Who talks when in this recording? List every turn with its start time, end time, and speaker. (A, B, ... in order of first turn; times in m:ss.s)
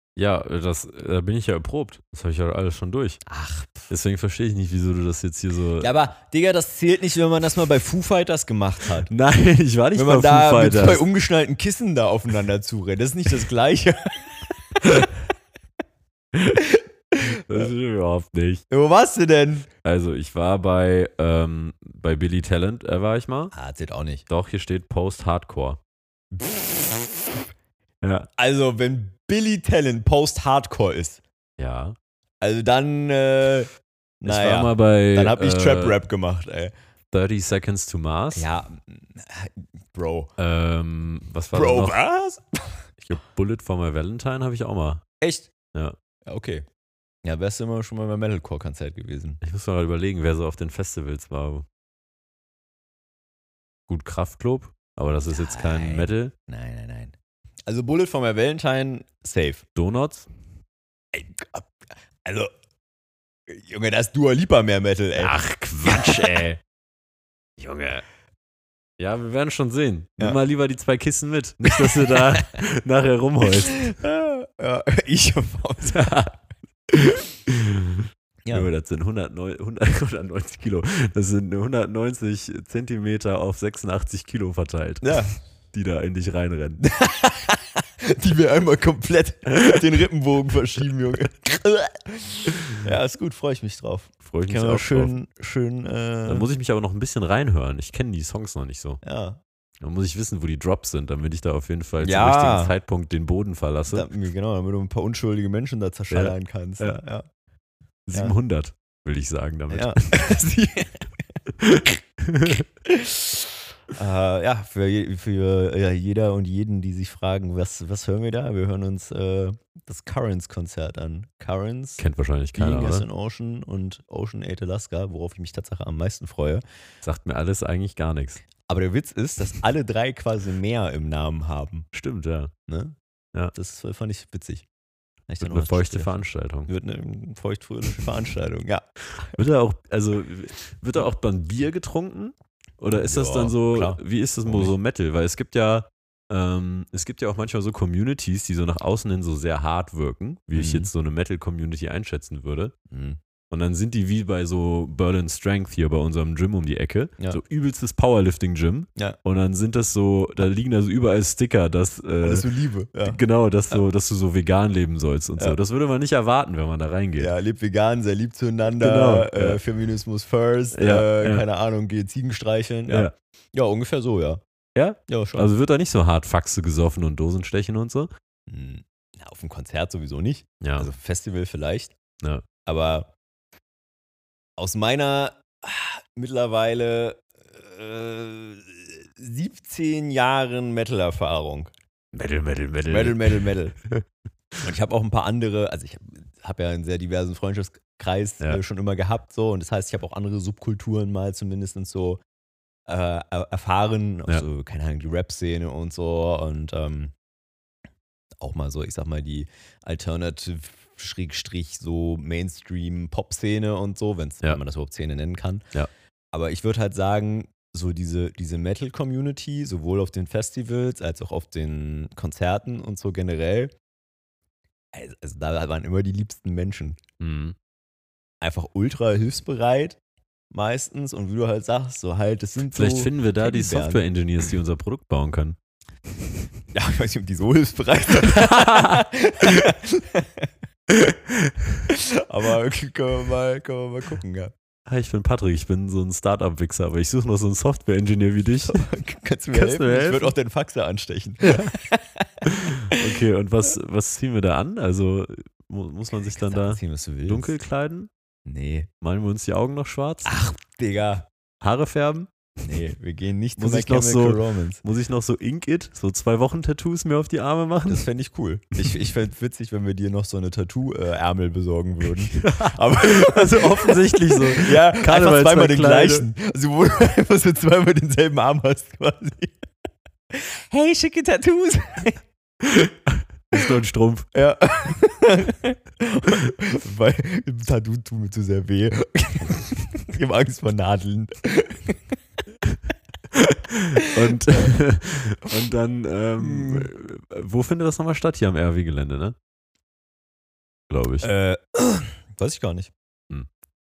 0:00.2-0:03.2 A
0:03.2-0:03.9 B
0:03.9-0:05.9 A
0:05.8-0:09.1 B
0:09.1-0:11.0 A
0:09.9-0:15.0 B
0:16.6-0:17.7 B
0:17.5-0:18.6 A
0:18.7-0:19.7 B
0:19.8-0:23.5 A
0:23.5-0:24.2 B
0:24.3-0:25.8 A
0:26.3-0:27.2 B
0:28.0-0:28.3 A
0:28.4-0:31.2 B
0:31.6-0:32.0 A
0:32.4-0:33.7 B
0:34.2-0:36.7 B
0:34.2-0:36.0 A
0:37.1-0:38.5 A
0:38.3-0:40.3 B
0:40.4-0:42.0 A
0:41.5-0:42.8 B
0:43.0-0:45.0 A
0:45.2-0:45.5 B
0:46.2-0:46.6 B
0:47.2-0:49.4 B
0:49.4-0:51.6 A
0:53.9-0:56.3 A
0:55.3-0:57.1 B
0:57.7-0:59.6 B
0:59.8-1:00.3 A
1:01.1-1:01.7 B
1:02.2-1:02.5 B
1:03.5-1:06.4 B
1:05.2-1:06.6 A
1:07.6-1:08.0 A
1:09.0-1:13.9 A
1:11.9-1:12.5 B
1:13.6-1:16.2 B
1:15.8-1:16.3 A
1:16.9-1:25.2 A
1:18.4-1:18.7 B
1:25.0-1:25.4 B
1:25.7-1:26.8 A
1:26.8-1:36.5 B
1:34.2-1:35.1 A
1:36.3-1:39.0 A
1:39.0-1:39.4 B
1:39.8-1:44.1 A
1:42.0-1:42.7 B
1:43.9-1:47.2 B
1:46.1-1:47.0 A
1:48.0-1:50.0 A
1:49.7-1:51.0 B
1:51.6-1:52.6 A
1:52.8-2:06.6 B
2:02.0-2:03.0 A
2:07.0-2:08.4 A
2:08.6-2:11.9 B
2:11.9-2:12.5 A
2:12.7-2:12.9 B
2:13.5-2:14.6 B
2:15.3-2:19.4 B
2:15.4-2:16.7 A
2:19.3-2:32.7 A
2:22.9-2:24.7 B
2:30.5-2:30.9 B
2:32.9-2:33.2 B
2:33.5-2:42.4 A
2:42.2-2:43.2 B
2:43.0-2:47.3 A
2:47.2-2:54.4 B
2:48.6-2:49.6 A
2:50.7-2:51.4 A
2:52.9-2:53.1 A
2:54.8-2:58.1 A
2:55.1-2:55.5 B
2:58.5-3:01.9 B
3:00.6-3:00.9 A
3:02.6-3:03.1 B
3:04.6-3:11.7 B
3:12.1-3:14.0 A
3:12.9-3:13.8 B
3:14.6-3:22.2 B
3:22.9-3:27.1 B
3:28.4-3:35.6 B
3:36.3-3:43.7 B
3:44.9-3:47.0 B
3:47.2-3:47.6 A
3:48.4-3:50.0 B
3:50.5-3:54.0 B
3:52.7-3:55.6 A
3:56.7-4:01.2 B
3:58.2-3:59.0 A
4:01.9-4:04.5 B
4:04.8-4:08.8 A
4:08.7-4:13.1 B
4:09.5-4:10.3 A
4:11.4-4:11.7 A
4:12.4-4:18.1 A
4:16.3-4:17.5 B
4:18.4-4:18.9 B
4:19.0-4:20.4 A
4:20.2-4:21.3 B
4:21.6-4:22.3 A
4:22.6-4:24.8 B
4:23.6-4:28.1 A
4:27.8-4:39.5 B
4:32.3-4:36.3 A
4:40.3-4:42.2 B
4:42.7-4:44.3 A
4:44.3-4:52.0 B
4:53.7-4:59.4 A
4:56.4-4:56.9 B
5:00.9-5:01.3 A
5:01.2-5:02.9 B